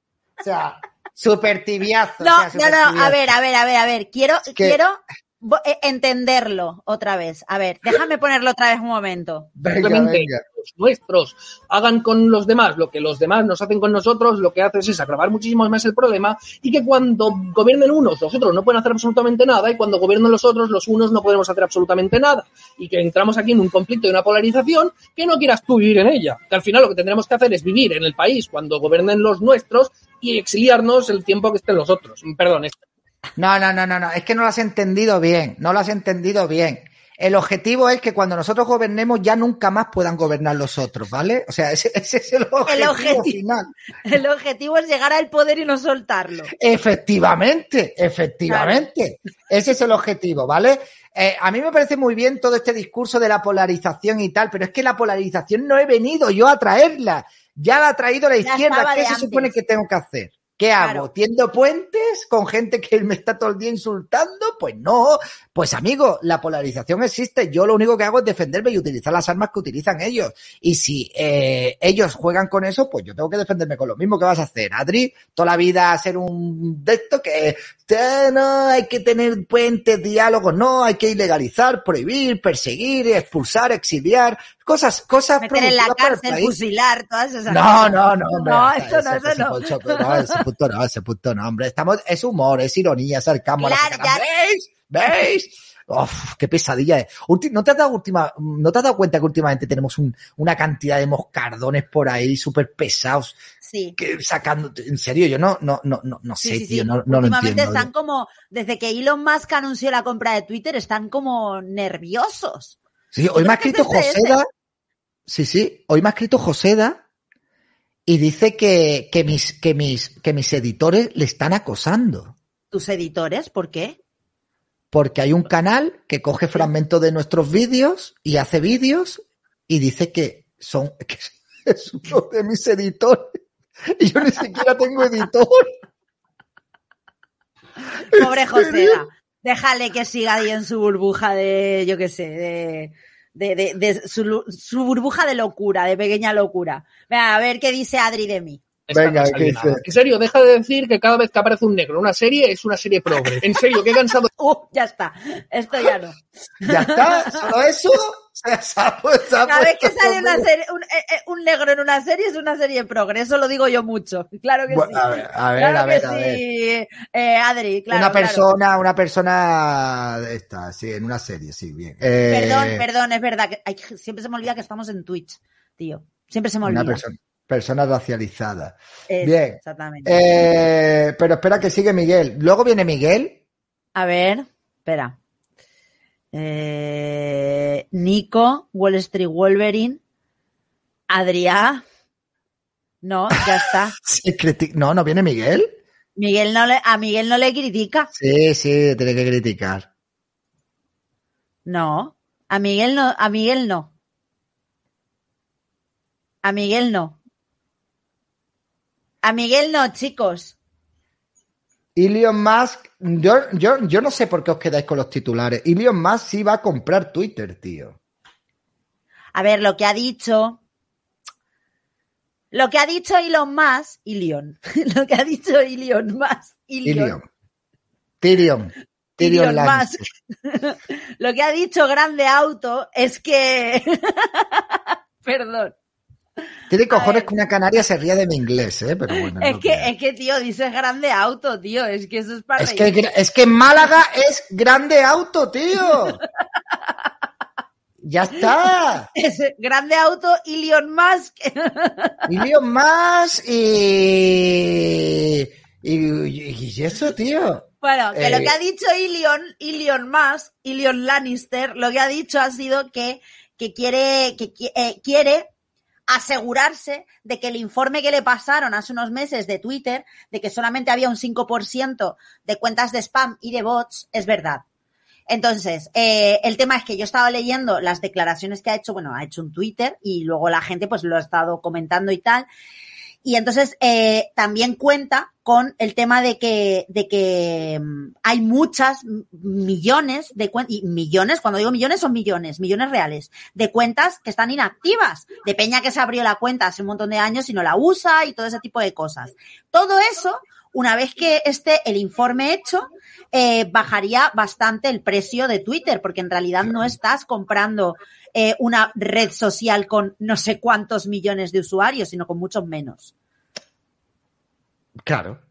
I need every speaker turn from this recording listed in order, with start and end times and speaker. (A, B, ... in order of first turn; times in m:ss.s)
0:00.4-0:03.2 A
0:02.2-0:09.5 B
0:04.5-0:04.8 A
0:09.6-0:10.4 A
0:09.7-0:32.8 C
0:33.4-0:43.7 A
0:42.7-0:43.4 B
0:44.0-0:46.5 B
0:46.6-1:26.6 A
0:48.5-0:48.9 B
0:58.4-0:59.5 B
1:00.8-1:01.1 B
1:25.4-1:30.4 B
1:27.5-1:43.4 A
1:33.6-1:34.2 B
1:43.6-1:44.0 B
1:44.0-1:47.9 A
1:46.4-1:52.8 B
1:53.1-1:54.4 A
1:53.3-1:54.4 B
1:55.3-1:57.0 A
1:58.0-2:02.3 A
2:02.7-2:04.0 B
2:04.9-2:13.4 A
2:13.9-2:15.7 A
2:18.1-2:28.6 B
2:18.1-2:19.0 A
2:28.9-2:34.3 C
2:28.9-2:29.8 A
2:34.4-2:37.4 B
2:36.6-2:40.4 A
2:39.4-2:48.4 B
2:44.7-2:46.4 A
2:47.9-2:52.8 A
2:52.3-2:57.0 B
2:56.6-3:03.4 A
2:59.1-3:00.4 B
3:03.9-3:05.2 B
3:06.3-3:10.0 B
3:11.1-3:11.8 B
3:13.0-3:13.9 B
3:14.0-3:15.7 A
3:16.2-3:18.1 B
3:18.1-3:19.9 A
3:21.6-3:23.9 B
3:26.4-3:27.2 B
3:29.2-3:30.6 B
3:31.9-3:38.0 A
3:39.3-3:40.6 B
3:42.5-3:47.1 B
3:46.8-3:47.2 A
3:48.2-3:50.1 A
3:49.2-3:55.7 B
3:56.7-3:59.9 A
3:56.9-3:57.3 B
3:59.1-4:02.9 B
4:02.6-4:06.2 A
4:08.0-4:09.1 A
4:09.1-4:12.2 B
4:12.3-4:18.5 A
4:17.8-4:25.5 B
4:26.1-4:34.6 B
4:35.3-4:42.5 B
4:43.2-5:13.1 B
5:15.0-5:15.4 A